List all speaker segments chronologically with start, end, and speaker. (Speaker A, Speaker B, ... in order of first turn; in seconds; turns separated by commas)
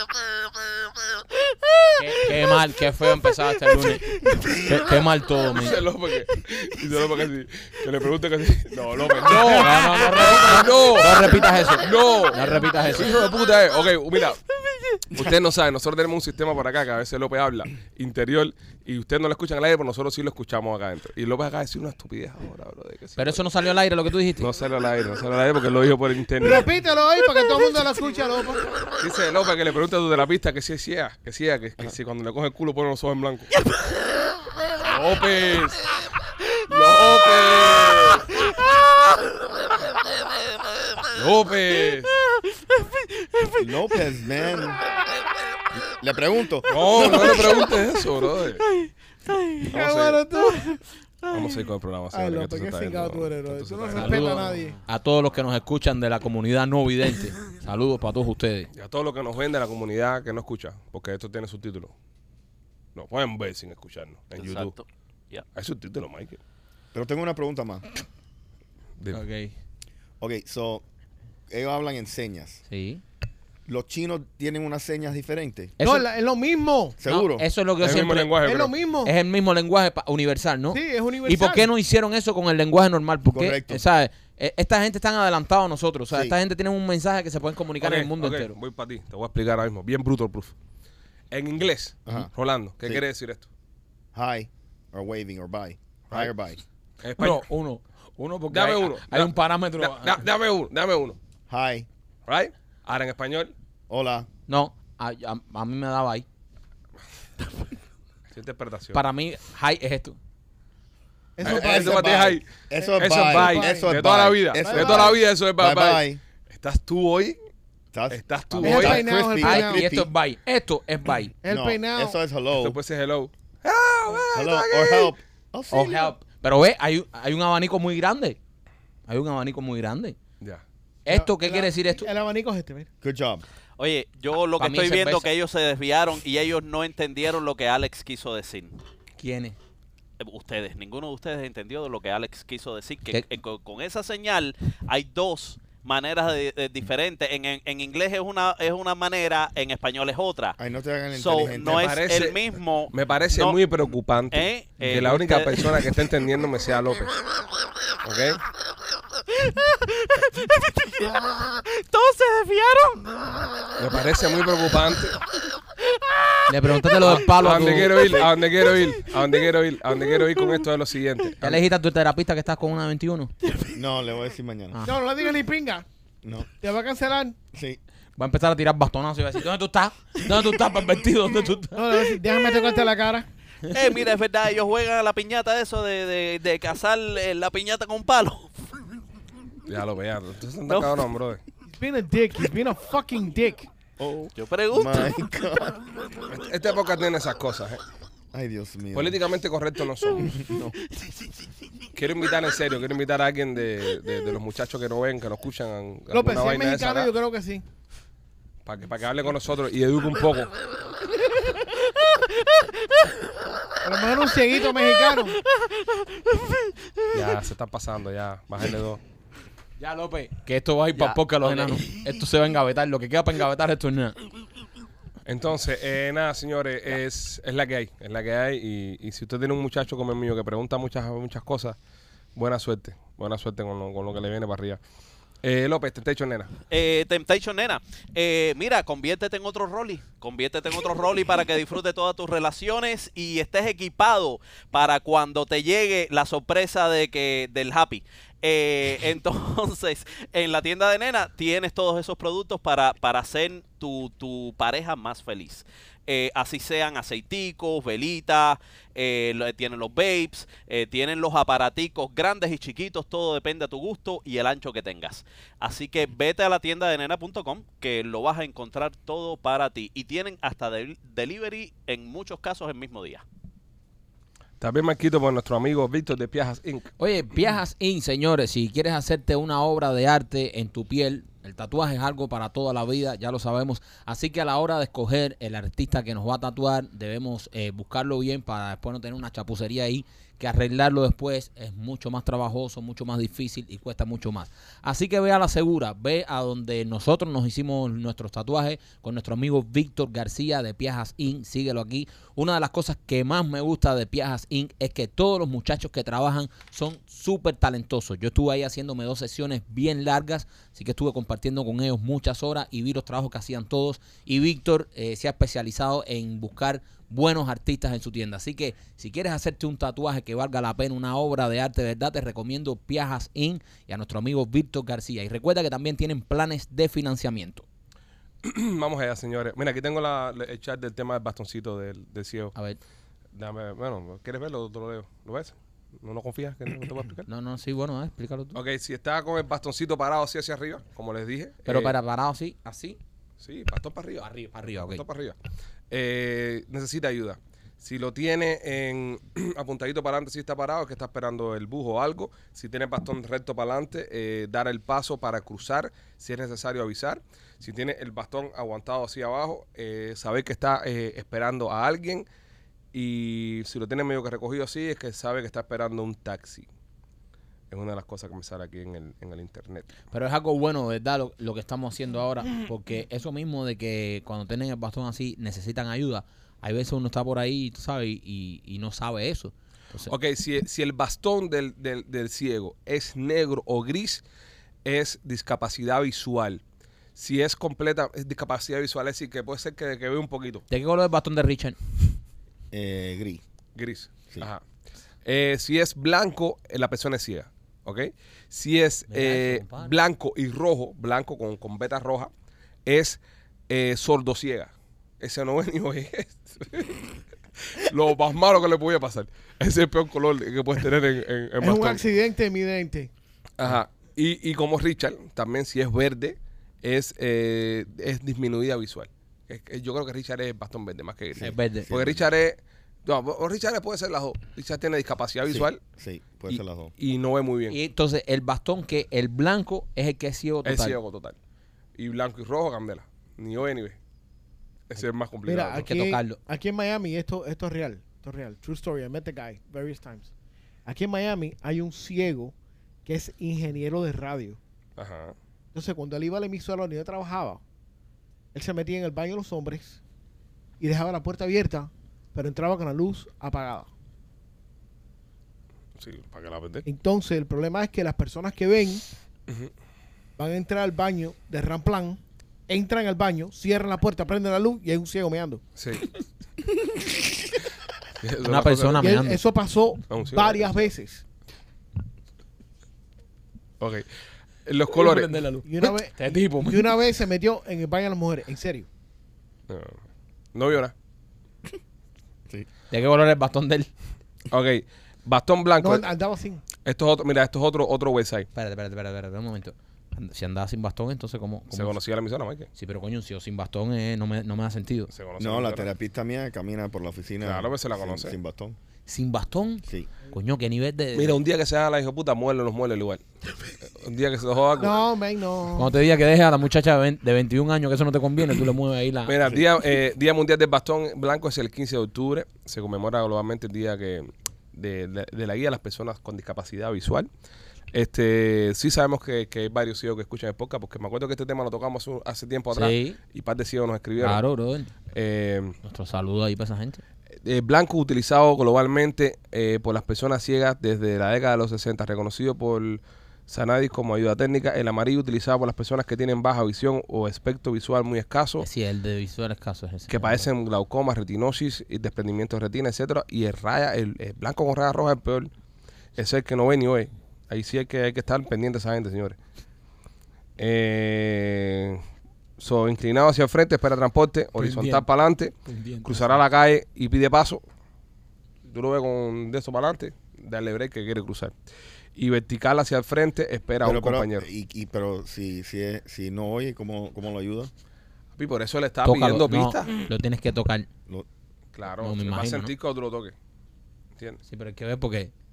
Speaker A: 2.0-5.8, Speaker B: 4.3-4.6, Speaker C: 5.5-14.4, Speaker D: 9.3-10.5, Speaker A: 9.3-13.2, Speaker C: 15.1-23.5, Speaker A: 23.2-24.5, Speaker C: 24.4-26.7, Speaker D: 26.4-28.7, Speaker C: 29.0-33.5, Speaker C: 34.8-35.9, Speaker C: 36.7-38.4, Speaker C: 41.1-42.1, Speaker B: 42.8-43.5, Speaker E: 43.6-44.8, Speaker E: 45.8-47.7, Speaker C: 46.7-48.6, Speaker D: 49.6-54.8, Speaker C: 49.7-50.2, Speaker C: 51.3-54.6, Speaker A: 53.9-58.7, Speaker C: 58.7-61.9, Speaker C: 62.9-64.7, Speaker B: 64.3-65.4, Speaker C: 65.5-66.4, Speaker E: 66.9-67.8, Speaker A: 69.1-69.5, Speaker E: 70.2-70.8, Speaker E: 71.5-72.6, Speaker A: 72.7-73.0, Speaker E: 73.7-75.7, Speaker A: 75.8-76.0, Speaker D: 75.8-77.0, Speaker E: 77.0-77.5, Speaker A: 77.0-78.3, Speaker C: 77.8-78.7, Speaker D: 78.4-79.1, Speaker A: 79.0-88.5, Speaker D: 80.7-81.7, Speaker E: 83.2-83.8, Speaker E: 86.1-86.3, Speaker C: 87.8-90.5, Speaker C: 91.3-93.5, Speaker E: 94.1-96.6, Speaker C: 97.0-97.5, Speaker A: 97.2-100.2, Speaker C: 98.5-101.2, Speaker E: 101.5-101.8, Speaker C: 102.3-103.5, Speaker E: 103.9-104.3, Speaker A: 104.5-106.2, Speaker C: 108.3-109.0, Speaker A: 108.9-110.2, Speaker D: 111.4-113.9, Speaker C: 111.4-112.4, Speaker E: 111.4-116.2, Speaker C: 113.0-117.4, Speaker D: 114.6-115.2, Speaker E: 117.9-120.1, Speaker C: 118.1-119.1, Speaker D: 118.6-119.9, Speaker A: 119.3-121.3, Speaker D: 121.4-122.2, Speaker E: 121.4-122.8, Speaker C: 122.5-125.1, Speaker E: 124.3-126.1, Speaker A: 125.7-128.4, Speaker A: 129.1-130.2, Speaker A: 131.0-132.1, Speaker D: 131.1-132.9, Speaker E: 133.0-133.4, Speaker B: 133.8-138.8, Speaker A: 134.6-135.3, Speaker A: 139.2-139.6, Speaker B: 140.2-150.6, Speaker E: 150.6-151.9, Speaker B: 151.1-153.6, Speaker C: 151.5-157.1, Speaker B: 154.3-155.9, Speaker C: 158.0-158.4, Speaker B: 159.4-163.7, Speaker C: 163.8-165.2, Speaker B: 165.9-166.4, Speaker A: 166.5-168.2, Speaker C: 167.0-171.6, Speaker E: 168.0-168.3, Speaker A: 171.4-173.3, Speaker E: 173.7-174.8, Speaker D: 174.8-175.8, Speaker E: 176.2-176.5, Speaker D: 176.6-177.3, Speaker E: 177.5-177.8, Speaker A: 178.2-182.1, Speaker D: 181.7-183.2, Speaker B: 183.7-188.7, Speaker C: 189.7-191.4, Speaker B: 190.7-190.9, Speaker D: 191.7-193.7, Speaker E: 194.0-195.9, Speaker B: 194.3-195.1, Speaker C: 196.3-197.8, Speaker E: 198.3-199.2, Speaker C: 198.9-200.4, Speaker E: 200.2-200.8, Speaker C: 201.9-207.1, Speaker D: 206.1-207.6, Speaker C: 208.7-210.5, Speaker D: 213.8-215.4, Speaker B: 215.5-217.2, Speaker C: 217.1-219.0, Speaker A: 219.8-224.2, Speaker B: 220.9-222.0, Speaker C: 225.2-231.8, Speaker C: 232.3-234.8, Speaker C: 235.4-236.5, Speaker B: 236.7-273.2, Speaker C: 274.6-276.9, Speaker A: 277.0-327.6, Speaker C: 328.4-332.5, Speaker C: 333.3-337.2, Speaker A: 337.3-338.6, Speaker C: 338.5-341.9, Speaker A: 341.6-343.0, Speaker C: 343.4-345.4, Speaker A: 344.2-345.0, Speaker C: 345.9-362.2, Speaker C: 362.9-366.7, Speaker C: 367.7-369.9, Speaker A: 370.1-380.1, Speaker C: 380.1-384.2, Speaker C: 384.8-386.6, Speaker C: 387.1-390.6, Speaker A: 390.7-391.8, Speaker E: 392.7-393.4, Speaker C: 393.7-394.6, Speaker C: 395.2-402.3, Speaker A: 399.1-399.9, Speaker C: 402.9-412.0, Speaker D: 411.6-413.1, Speaker C: 413.6-425.8, Speaker E: 421.3-422.2, Speaker A: 421.4-421.9, Speaker E: 425.4-426.9, Speaker C: 427.0-427.8, Speaker A: 427.7-431.0, Speaker C: 430.6-431.4, Speaker C: 431.9-434.0, Speaker C: 434.9-435.9, Speaker D: 435.5-440.3, Speaker A: 435.8-436.4, Speaker D: 440.9-442.5, Speaker D: 443.1-444.6, Speaker C: 445.0-445.3, Speaker D: 445.7-447.6, Speaker D: 448.5-450.0, Speaker D: 450.8-453.9, Speaker C: 456.0-456.9, Speaker D: 456.9-459.0, Speaker D: 460.4-465.6, Speaker C: 465.8-466.0, Speaker C: 468.2-469.2, Speaker A: 468.4-469.4, Speaker D: 469.0-471.2, Speaker C: 470.1-470.9, Speaker C: 473.8-474.1, Speaker C: 474.6-475.3, Speaker A: 474.9-477.0, Speaker D: 475.6-478.9, Speaker C: 479.7-480.0, Speaker C: 480.5-480.9, Speaker A: 482.9-483.9, Speaker C: 484.5-486.1, Speaker D: 485.8-486.6, Speaker C: 486.8-488.5, Speaker A: 488.5-491.9, Speaker C: 491.7-492.7, Speaker A: 492.7-495.1, Speaker C: 495.1-495.9, Speaker E: 495.4-498.8, Speaker C: 497.4-498.4, Speaker A: 499.1-501.3, Speaker C: 501.1-503.2, Speaker C: 503.9-505.0, Speaker D: 504.8-505.9, Speaker A: 505.7-509.4, Speaker C: 509.2-517.3, Speaker C: 517.9-524.4, Speaker A: 522.7-523.2, Speaker A: 524.2-524.9, Speaker C: 525.1-525.8, Speaker A: 525.8-527.0, Speaker C: 527.4-538.6, Speaker A: 538.6-540.5, Speaker C: 540.1-545.5, Speaker C: 546.2-549.4, Speaker C: 550.6-552.0, Speaker C: 552.6-557.6, Speaker A: 554.6-555.0, Speaker A: 555.6-556.4, Speaker C: 558.6-561.5, Speaker C: 562.1-564.5, Speaker E: 563.8-567.7, Speaker C: 568.3-569.9, Speaker A: 569.0-570.9, Speaker C: 571.7-573.3, Speaker A: 572.0-572.7, Speaker A: 574.5-575.3